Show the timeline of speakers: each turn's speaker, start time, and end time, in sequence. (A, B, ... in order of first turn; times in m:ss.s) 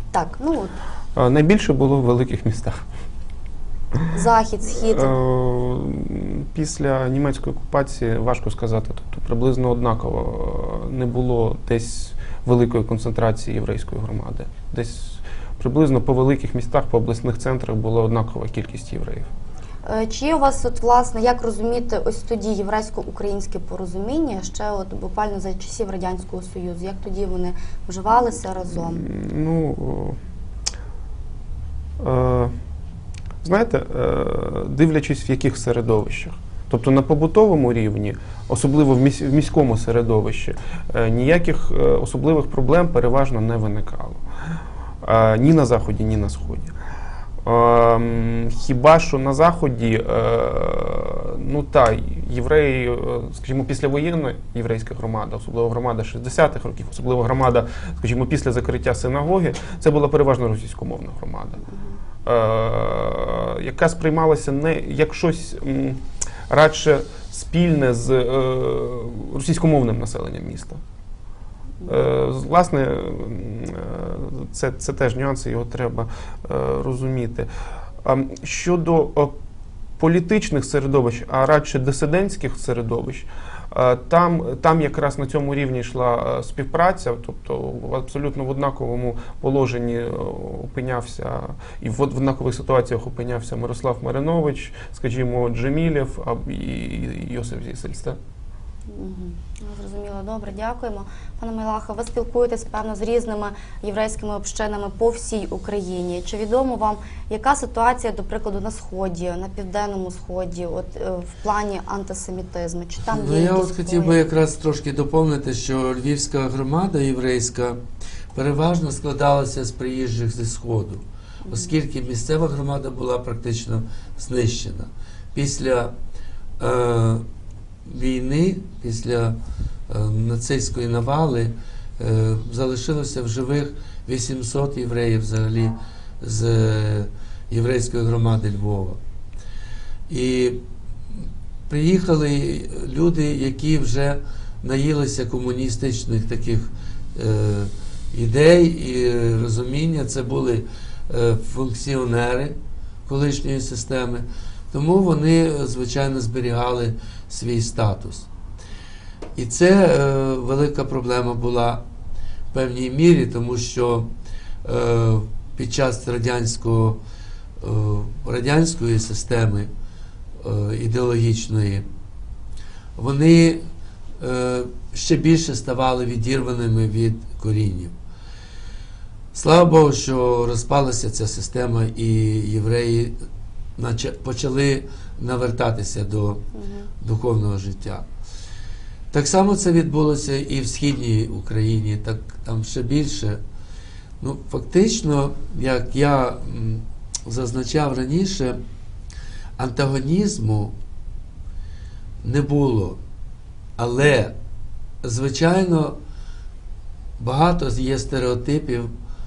0:00.1-0:00.7 A
0:01.1-0:02.8 B
0:04.1-0:05.1 A
0:04.9-0:19.3 B
0:19.8-0:29.0 A
0:28.9-0:30.2 B
0:32.0-0:32.5 B
0:33.4-0:44.2 B
0:45.0-0:46.7 B
0:47.4-1:01.6 B
1:02.2-1:10.8 B
1:11.8-1:17.5 B
1:18.0-1:19.3 B
1:20.0-1:38.2 B
1:38.9-1:54.2 A
1:53.0-1:57.8 C
1:58.3-2:05.9 C
2:01.4-2:01.7 A
2:06.6-2:07.2 C
2:07.8-2:09.4 C
2:09.9-2:19.0 C
2:20.1-2:20.6 C
2:21.7-2:32.6 C
2:33.1-2:38.3 C
2:39.4-2:41.8 C
2:42.5-2:44.1 C
2:44.6-2:47.0 C
2:47.6-2:49.7 C
2:50.4-2:51.9 C
2:53.0-2:53.6 C
2:54.2-2:57.9 C
2:59.3-3:03.2 C
3:03.8-3:06.4 C
3:06.6-3:06.9 A
3:07.0-3:08.0 C
3:09.1-3:13.4 C
3:14.2-3:18.6 C
3:19.6-3:20.7 C
3:22.2-3:23.0 C
3:23.8-3:24.4 C
3:25.0-3:26.0 C
3:27.2-3:28.9 C